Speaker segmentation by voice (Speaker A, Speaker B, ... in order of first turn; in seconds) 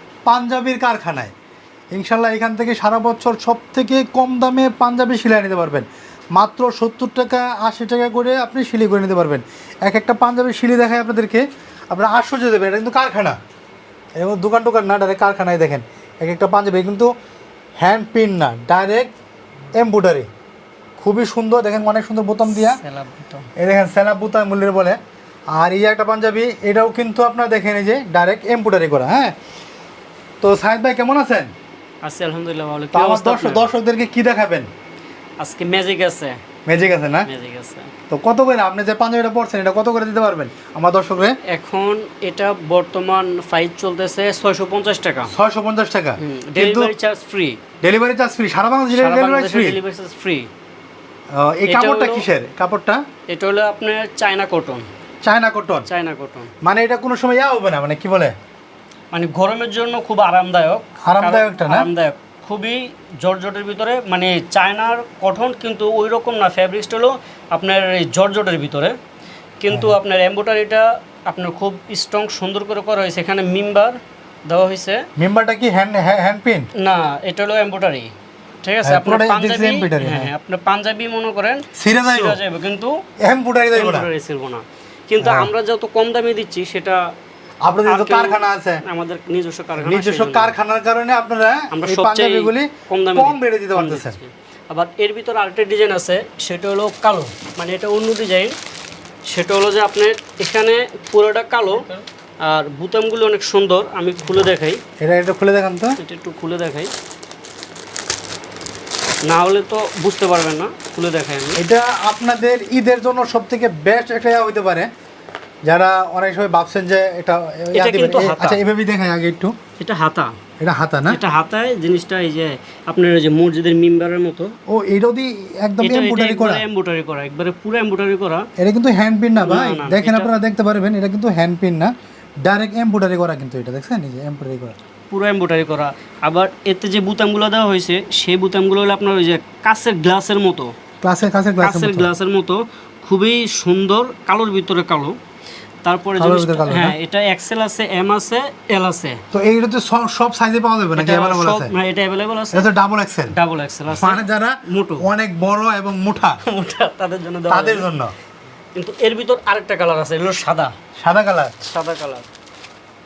Speaker A: 0.3-1.3, 1.9-13.4, 14.2-17.1, 17.8-19.1, 19.7-20.3, 21.0-22.8, 23.6-25.0, 25.5-29.3, 30.4-31.5, 32.9-34.7, 36.7-37.3, 38.1-41.4, 45.3-46.9, 47.8-49.8, 51.3-53.0, 55.2-55.9, 56.6-58.3, 61.0-61.9, 69.7-70.0, 75.2-76.7, 78.8-80.3, 81.7-82.4, 83.2-84.1, 85.2-85.5, 87.7-88.8, 89.8-94.2, 105.0-106.0, 111.6-114.9, 115.7-119.5, 120.6-121.2, 124.7-126.6, 128.6-131.9, 132.4-134.8, 141.0-142.1, 146.2-146.9, 149.3-151.7, 152.5-153.3, 153.9-156.4, 157.5-158.1, 161.0-161.6
Speaker B: 22.5-23.5, 32.0-33.7, 35.4-36.4, 37.3-37.9, 41.5-45.3, 46.2-47.6, 48.9-50.5, 51.7-52.3, 53.3-54.9, 55.9-56.5, 59.1-69.0, 69.6-75.1, 76.8-78.1, 78.6-83.0, 83.8-87.0, 87.8-90.6, 91.7-98.6, 99.3-104.8, 106.0-106.9, 109.3-111.6, 117.7-118.6, 119.8-120.4, 121.1-124.5, 125.8-128.5, 129.4-130.3, 135.1-140.7, 141.6-145.2, 145.8-149.2, 151.0-152.7, 153.3-155.1, 156.4-157.9, 158.8-160.7, 161.6-162.3